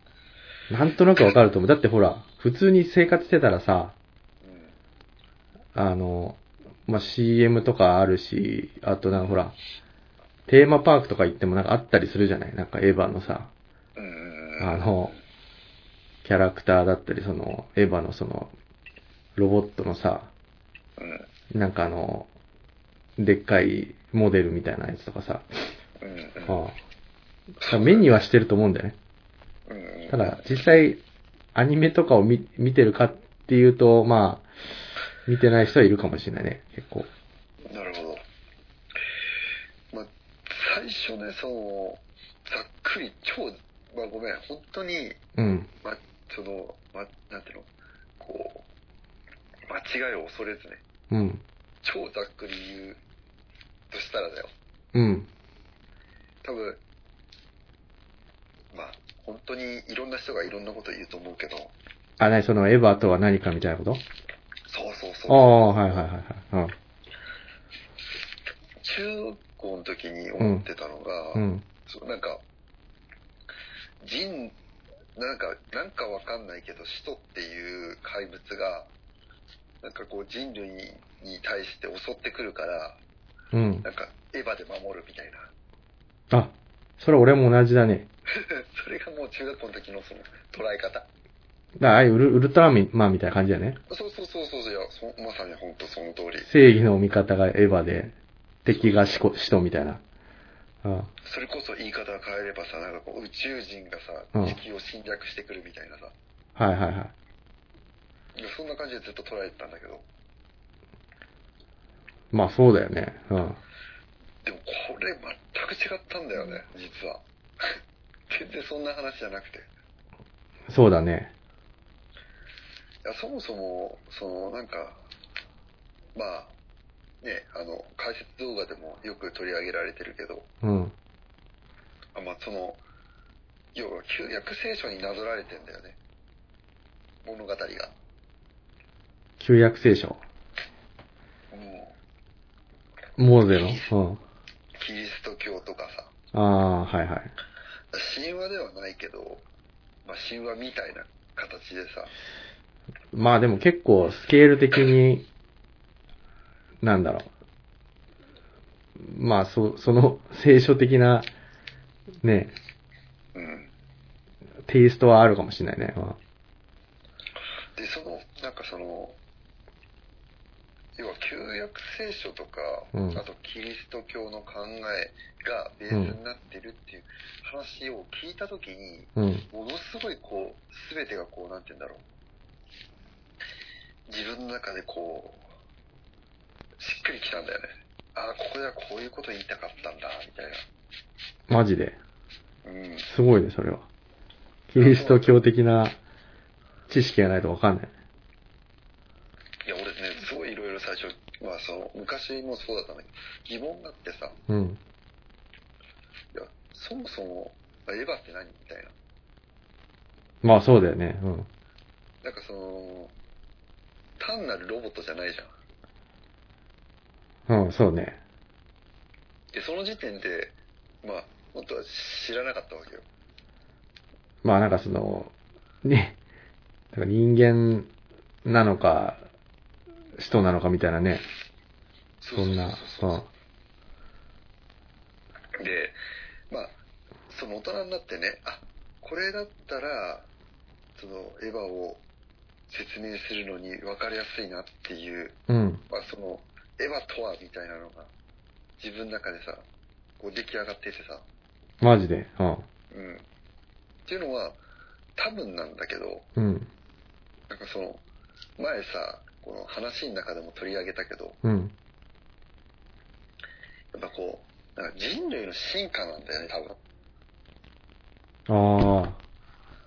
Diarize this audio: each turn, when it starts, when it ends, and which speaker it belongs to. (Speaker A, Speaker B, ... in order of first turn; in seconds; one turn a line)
Speaker A: 0.7-3.9
Speaker B: 4.4-4.7
Speaker A: 5.7-9.5
Speaker A: 10.5-13.5
Speaker B: 13.9-15.2
Speaker A: 14.6-15.1
Speaker A: 16.2-18.5
Speaker A: 19.4-20.3
Speaker B: 21.0-21.3
Speaker A: 21.5-22.3
Speaker A: 23.2-25.4
Speaker B: 26.0-26.7
Speaker A: 26.5-26.7
Speaker B: 27.6-28.1
Speaker A: 27.7-28.9
Speaker B: 29.7-30.5
Speaker A: 30.1-31.0
Speaker A: 31.5-34.5
Speaker A: 35.3-37.1
Speaker B: 37.6-38.2
Speaker B: 39.9-45.2
Speaker A: 45.4-45.7
Speaker B: 45.8-48.6
Speaker B: 49.7-50.8
Speaker A: 51.1-51.4
Speaker B: 51.8-53.0
Speaker B: 53.9-54.5
Speaker A: 54.9-55.3
Speaker B: 56.4-56.8
Speaker B: 58.7-61.7
Speaker A: 62.2-64.0
Speaker B: 64.7-66.1
Speaker A: 65.3-66.7
Speaker B: 68.8-72.4
Speaker A: 70.4-70.7
Speaker A: 71.3-71.6
Speaker B: 74.0-74.5
Speaker B: 75.2-78.9
Speaker B: 79.8-83.0
Speaker A: 83.5-83.8
Speaker B: 83.8-85.5
Speaker A: 86.3-88.1
Speaker B: 88.3-91.1
Speaker A: 91.8-93.8
Speaker B: 93.9-96.5
Speaker A: 96.5-98.1
Speaker A: 98.6-100.0
Speaker A: 100.8-101.1
Speaker B: 101.2-106.1
Speaker A: 106.5-107.1
Speaker B: 108.3-110.0
Speaker A: 112.3-113.6
Speaker B: 114.4-117.8
Speaker B: 118.3-119.7
Speaker A: 120.7-121.3
Speaker B: 123.0-125.0
Speaker B: 126.1-126.5
Speaker B: 127.2-130.5
Speaker A: 130.6-130.9
Speaker B: 132.1-132.8
Speaker B: 133.7-136.0
Speaker B: 137.2-137.9
Speaker A: 139.4-140.2
Speaker B: 141.5-141.9
Speaker A: 143.2-144.2
Speaker B: 143.6-143.9
Speaker B: 144.8-146.1
Speaker A: 146.3-147.3
Speaker B: 147.9-149.4
Speaker B: 150.1-152.1
Speaker A: 153.1-155.2
Speaker A: 156.8-157.3
Speaker A: 159.0-161.3
Speaker A: 162.2-162.6
Speaker B: 163.3-163.7
Speaker A: 164.7-166.2
Speaker B: 167.8-169.2
Speaker B: 171.0-182.0
Speaker A: 172.9-173.2
Speaker A: 175.9-176.2
Speaker A: 179.2-179.4
Speaker B: 184.1-185.4
Speaker B: 186.8-190.6
Speaker A: 191.5-192.0
Speaker B: 192.6-193.1
Speaker A: 193.1-193.8
Speaker A: 194.7-195.9
Speaker B: 194.8-195.4
Speaker A: 196.9-197.9
Speaker B: 199.7-204.4
Speaker A: 204.5-204.8
Speaker B: 206.3-208.9
Speaker A: 210.4-211.5
Speaker B: 212.2-213.1
Speaker B: 214.2-215.5
Speaker A: 217.5-218.2
Speaker B: 219.5-223.1
Speaker A: 224.4-226.2
Speaker A: 226.9-227.9
Speaker A: 228.4-229.2
Speaker A: 230.2-231.2
Speaker B: 232.2-233.3
Speaker A: 232.3-233.2
Speaker B: 235.6-236.0
Speaker B: 236.5-236.7
Speaker B: 237.3-240.3
Speaker B: 241.0-242.0
Speaker B: 242.7-245.4
Speaker A: 245.5-245.8
Speaker B: 245.9-248.1
Speaker B: 248.8-249.6
Speaker B: 250.2-251.2
Speaker A: 251.8-252.7
Speaker B: 252.9-253.2
Speaker B: 254.1-254.6
Speaker B: 255.2-256.3
Speaker A: 256.4-256.7
Speaker B: 257.5-258.0
Speaker B: 258.6-261.4
Speaker A: 261.4-261.7
Speaker B: 263.9-266.8
Speaker A: 268.5-269.2